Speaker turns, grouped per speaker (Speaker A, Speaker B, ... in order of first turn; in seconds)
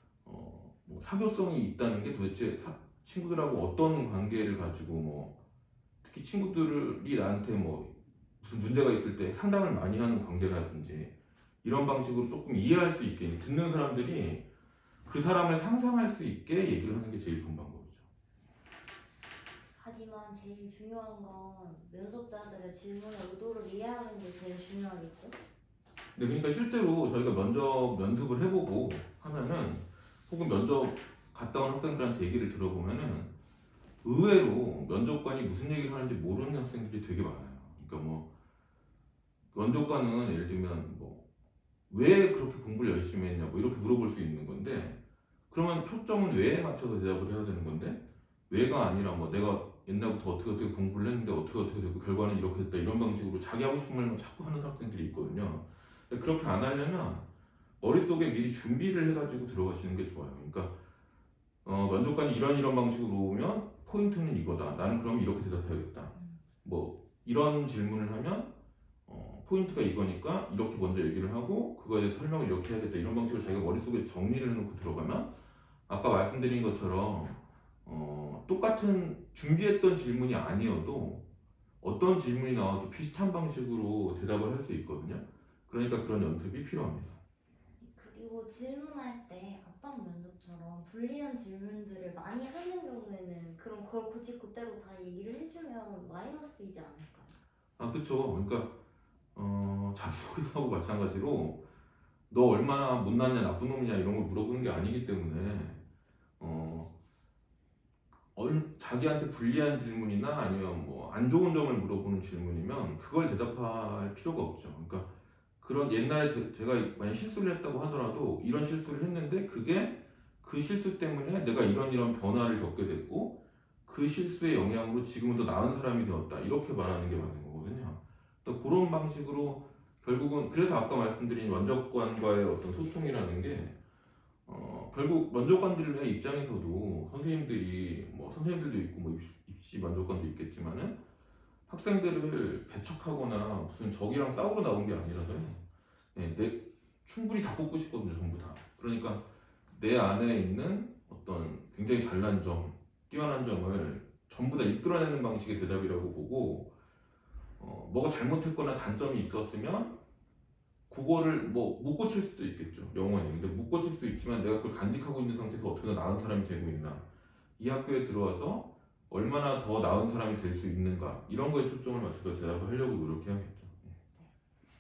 Speaker A: 0.2-5.4, 6.0-14.5, 15.1-18.1, 26.1-33.3, 34.0-38.3, 39.5-41.2, 41.9-45.0, 45.5-57.3, 57.8-60.8, 61.6-68.5, 69.1-75.3, 75.9-81.3, 81.8-87.2, 97.8-98.8, 99.3-101.7, 102.3-105.8, 106.4-106.9, 108.3-133.8, 134.5-141.0, 141.7-145.6, 146.2-156.7, 157.6-160.0, 160.9-167.0, 167.6-173.9
Speaker B: 19.8-25.4, 66.2-66.4, 87.8-97.3